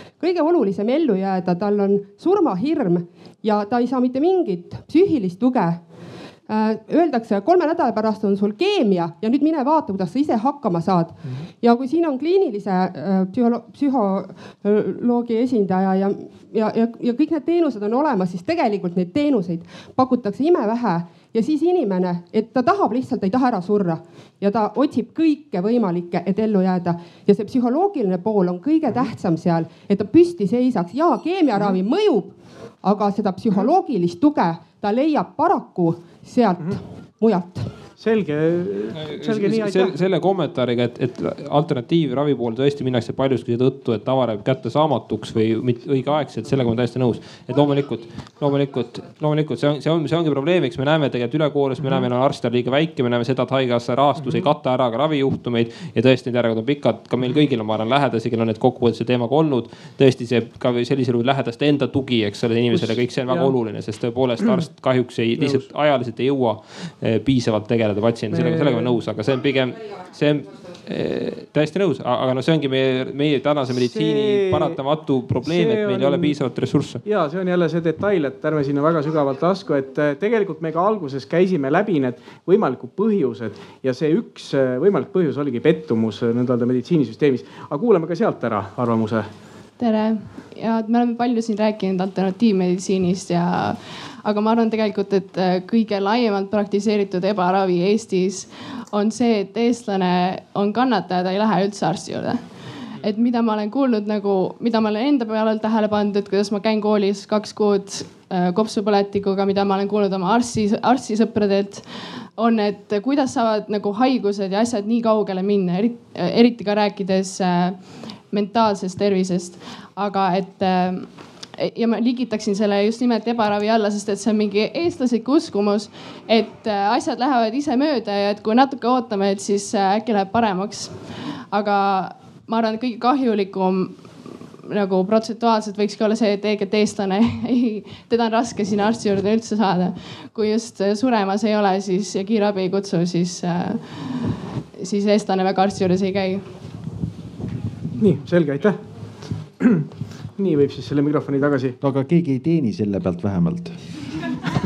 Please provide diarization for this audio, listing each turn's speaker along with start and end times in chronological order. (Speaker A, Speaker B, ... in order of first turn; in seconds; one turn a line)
Speaker A: 0.1-5.8
Speaker A: 6.5-37.8
Speaker B: 37.9-40.0
Speaker C: 39.0-77.0
Speaker B: 54.2-54.5
Speaker B: 62.7-63.5
Speaker B: 65.4-65.7
Speaker B: 68.3-68.9
Speaker B: 73.7-74.8
Speaker B: 75.4-76.3
Speaker B: 77.0-89.3
Speaker D: 89.8-146.6
Speaker B: 148.0-148.8
Speaker B: 149.6-149.8
Speaker B: 150.4-151.8
Speaker E: 151.8-153.8